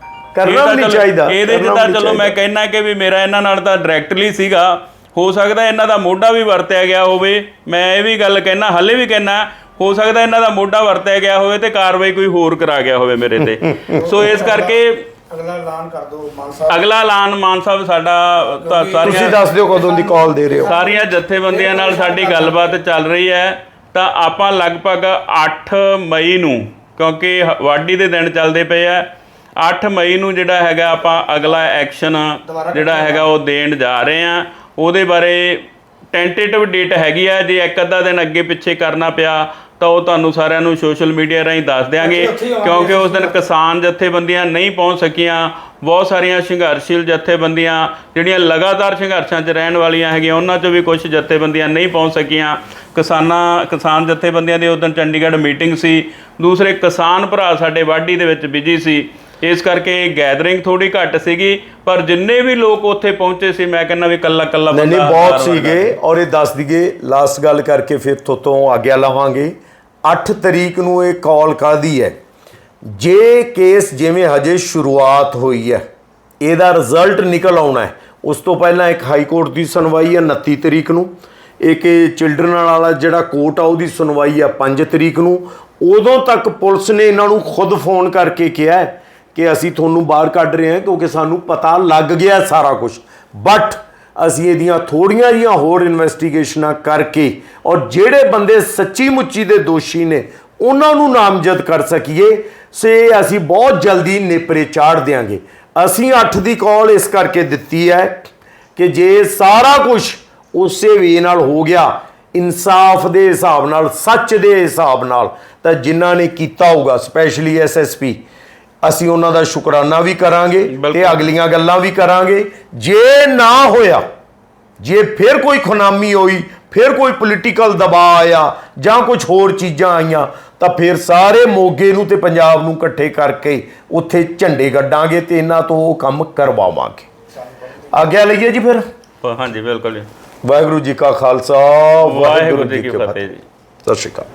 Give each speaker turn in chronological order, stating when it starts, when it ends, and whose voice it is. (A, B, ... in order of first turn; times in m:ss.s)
0:00.3-0:02.3 A
0:00.4-0:15.0 B
0:13.6-0:13.9 A
0:13.9-0:14.8 C
0:15.3-0:16.9 C
0:16.7-0:19.4 B
0:18.6-0:22.8 C
0:19.0-0:20.7 A
0:20.6-0:29.1 B
0:29.6-1:06.0 B
0:32.4-0:33.3 C
0:42.0-0:43.4 C
1:04.7-1:12.2 A
1:12.8-1:15.8 A
1:16.4-1:58.2 A
1:58.8-2:04.0 A
2:00.7-2:01.3 B
2:04.8-2:17.1 A
2:17.4-2:17.8 C
2:17.9-2:18.8 A
2:19.2-2:20.1 B
2:20.4-2:23.2 A
2:22.0-2:23.4 B
2:23.8-2:24.3 A